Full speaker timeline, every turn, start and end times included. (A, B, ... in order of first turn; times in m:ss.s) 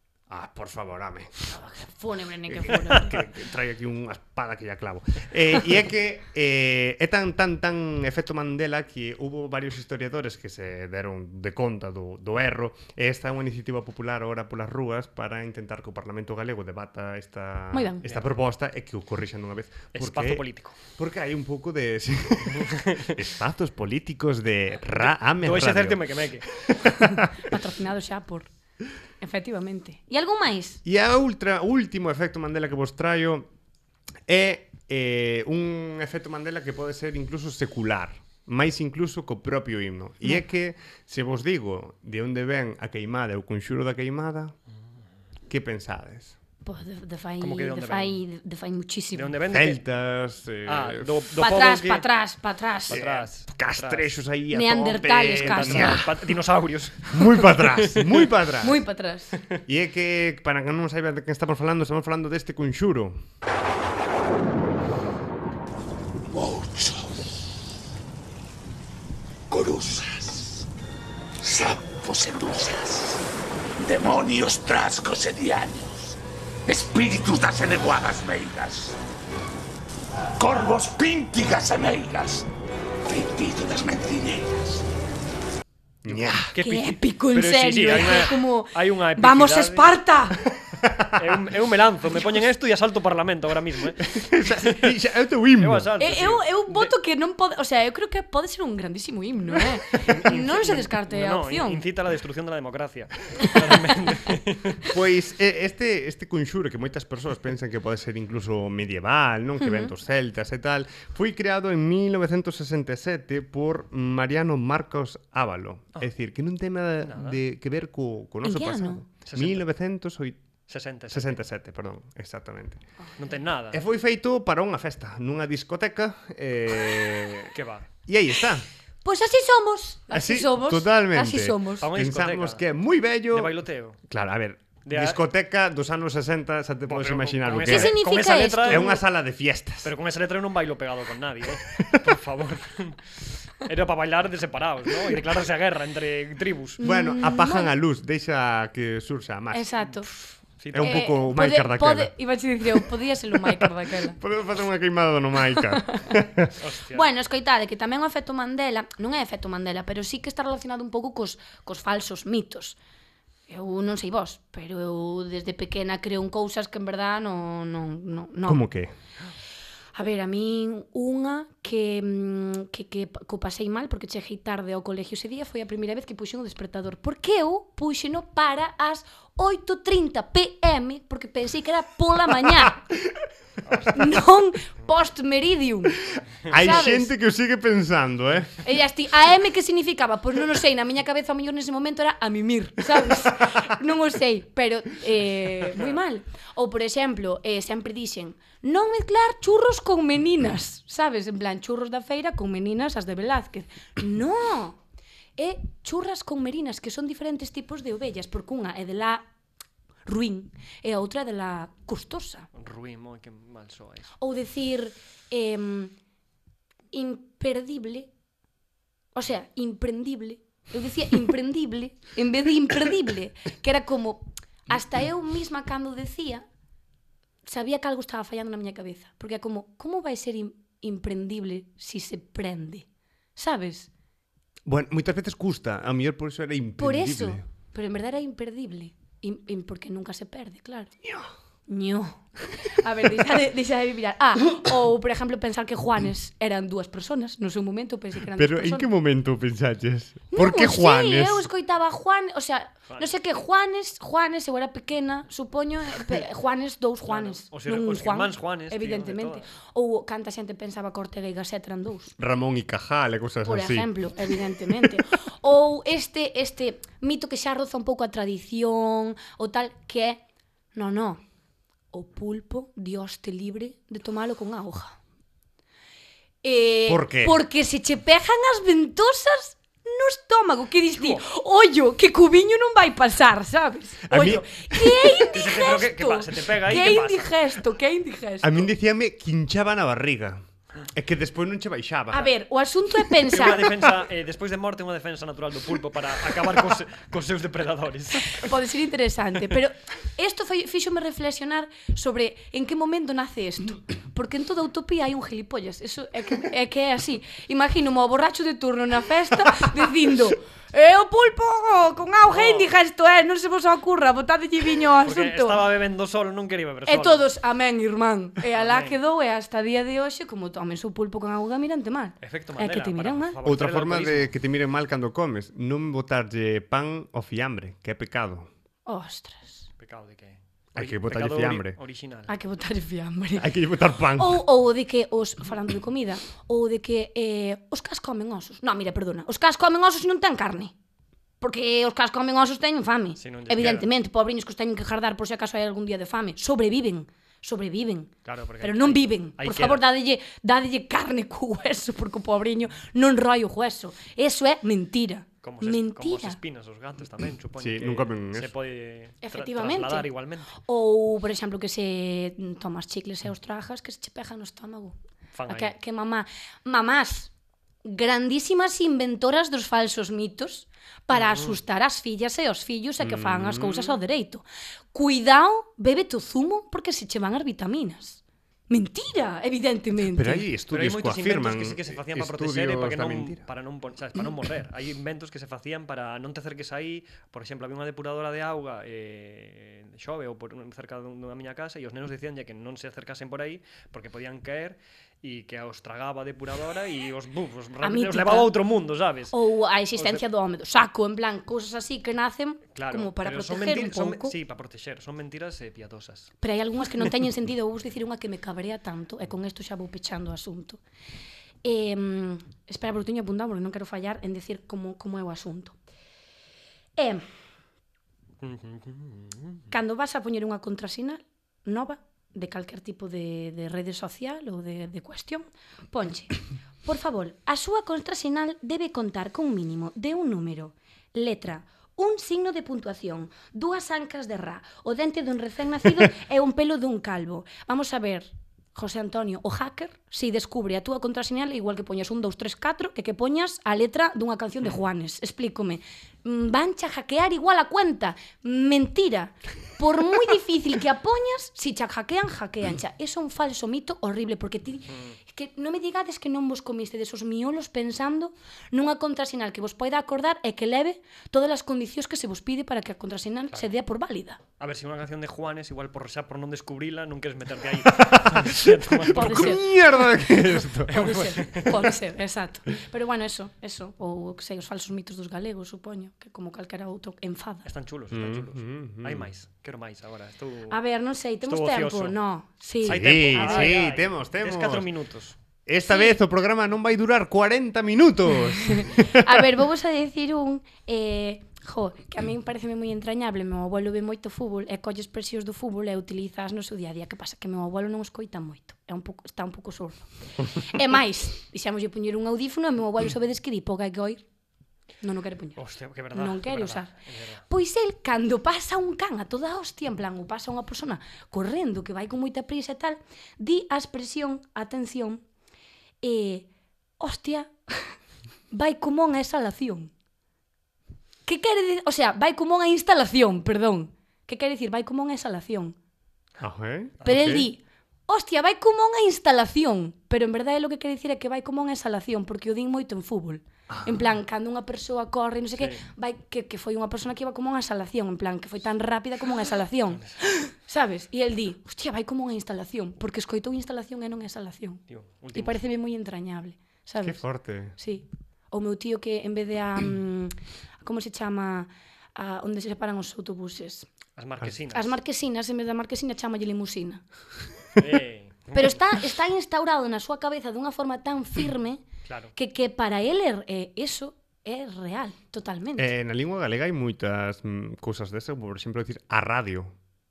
0:00.3-0:01.4 A
0:01.5-0:03.2 B
0:02.5-0:27.5 A
0:17.7-0:18.0 B
0:19.9-0:20.8 C
0:22.5-0:23.2 C
0:25.0-0:26.5 C
0:27.0-0:28.5 B
0:29.2-0:30.8 B
0:30.8-0:33.5 A
0:34.3-0:44.5 A
0:45.5-0:46.4 A
0:46.6-0:49.3 B
0:47.4-0:48.2 C
0:49.1-0:49.8 C
0:49.5-0:51.2 A
0:50.6-0:52.0 C
0:51.4-0:53.0 B
0:52.9-0:54.2 C
0:52.9-0:56.2 A
0:54.5-0:56.0 B
0:55.4-0:58.3 C
0:57.1-0:58.8 A
0:58.6-0:59.4 B
0:59.6-1:03.2 A
1:06.3-1:07.4 D
1:09.5-1:10.6 D
1:11.4-1:13.2 D
1:13.8-1:19.0 D
1:20.4-1:22.5 D
1:23.0-1:24.9 D
1:26.0-1:26.5 A
1:26.3-1:29.9 C
1:26.5-1:30.4 B
1:30.6-1:31.4 A
1:31.1-1:34.9 C
1:34.0-1:35.9 A
1:35.6-1:36.9 C
1:36.0-1:41.8 B
1:40.0-1:44.9 C
1:44.9-2:00.4 A
1:49.6-1:49.9 B
1:57.0-1:57.4 C
1:58.4-1:59.0 B
1:59.2-1:59.6 C
2:00.7-2:01.4 C
2:01.1-2:02.8 A
2:03.2-2:03.8 C
2:03.7-2:07.5 A
2:07.5-2:07.9 C
2:08.1-2:08.7 A
2:09.0-2:11.9 B
2:10.1-2:18.0 A
2:11.8-2:12.6 C
2:13.3-2:14.0 C
2:14.8-2:15.2 C
2:16.9-2:19.0 C
2:17.6-2:19.0 B
2:18.6-2:19.9 A
2:19.8-2:26.8 C
2:21.8-2:22.1 A
2:26.8-2:27.7 B
2:26.8-2:29.7 A
2:29.5-2:30.1 B
2:30.6-2:31.1 C
2:30.7-2:32.1 A
2:30.8-2:34.2 B
2:33.5-2:36.5 A
2:35.6-2:36.1 B
2:36.6-2:37.0 C
2:36.9-2:42.8 B
2:43.5-2:48.6 B
2:48.4-2:48.9 A
2:49.9-3:02.8 B
3:03.6-3:04.1 C
3:03.9-3:07.1 B
3:06.5-3:08.5 A
3:08.6-3:24.8 B
3:25.4-3:29.3 B
3:30.0-3:32.5 B
3:32.5-3:34.1 C
3:34.2-3:35.9 B
3:36.9-3:38.1 B
3:39.1-3:46.4 B
3:47.4-3:53.9 B
3:54.6-3:57.4 A
3:56.8-4:00.9 B
4:01.0-4:01.3 A
4:01.7-4:08.9 B
4:08.3-4:11.5 A
4:10.3-4:22.1 B
4:12.9-4:13.1 C
4:17.0-4:19.5 C
4:22.2-4:23.9 A
4:23.4-4:30.2 B
4:30.7-4:31.2 B
4:31.9-4:35.0 B
4:36.4-4:48.7 B
4:36.9-4:37.3 A
4:40.9-4:41.2 C
4:44.1-4:45.1 A
4:45.2-4:47.4 C
4:48.4-4:52.3 A
4:52.1-4:53.9 B
4:53.3-4:58.5 C
4:58.3-5:15.6 B
5:12.3-5:12.7 C
5:15.0-5:17.3 C
5:16.9-5:23.4 B
5:18.5-5:19.0 C
5:22.2-5:24.3 C
5:23.4-5:28.5 A
5:28.8-5:29.7 B
5:29.8-5:32.3 C
5:30.7-5:31.8 A
5:32.3-5:33.5 B
5:33.4-5:34.4 A
5:34.2-5:40.7 B
5:41.4-5:56.4 B
5:43.2-5:43.9 C
5:48.2-5:49.8 C
5:55.4-6:00.6 C
5:57.6-5:58.5 A
5:59.2-6:07.3 B
6:05.3-6:05.7 C
6:07.8-6:20.5 B
6:11.1-6:11.6 C
6:13.0-6:13.9 A
6:20.1-6:23.4 A
6:20.7-6:39.3 C
6:37.8-6:38.5 B
6:39.3-6:44.4 B
6:40.0-6:40.2 C
6:42.8-6:46.3 C
6:46.4-6:50.8 B
6:51.6-6:55.7 B
6:57.0-6:57.2 B
6:58.4-6:59.7 C
6:59.7-7:44.4 B
7:44.6-7:49.6 C
7:48.3-7:51.4 A
7:49.1-7:49.7 B
7:50.8-7:57.7 B
7:50.9-7:51.8 C
7:57.6-8:00.8 C
7:58.1-7:59.3 A
8:00.7-8:03.9 B
8:01.4-8:02.2 C
8:02.8-8:05.4 C
8:02.8-8:04.9 A
8:05.7-8:09.4 A
8:05.8-8:06.2 B
8:08.6-8:24.2 B
8:25.0-8:25.6 B
8:25.6-8:27.4 C
8:26.1-8:26.9 B
8:27.5-8:35.2 B
8:36.0-8:36.5 B
8:37.0-8:37.9 B
8:38.5-8:39.9 B
8:41.2-8:45.8 B
8:46.4-8:47.5 A
8:47.0-9:04.8 B
8:47.1-8:47.4 C
8:53.7-8:54.1 A
8:55.6-8:55.8 C
9:04.9-9:05.6 C
9:05.3-9:07.2 B
9:07.0-9:07.8 A
9:07.7-9:13.9 B
9:14.2-9:15.0 C
9:14.7-9:17.0 B
9:17.8-9:18.8 C
9:18.5-9:21.8 B
9:22.0-9:22.3 C
9:22.3-9:25.9 B
9:25.8-9:29.7 A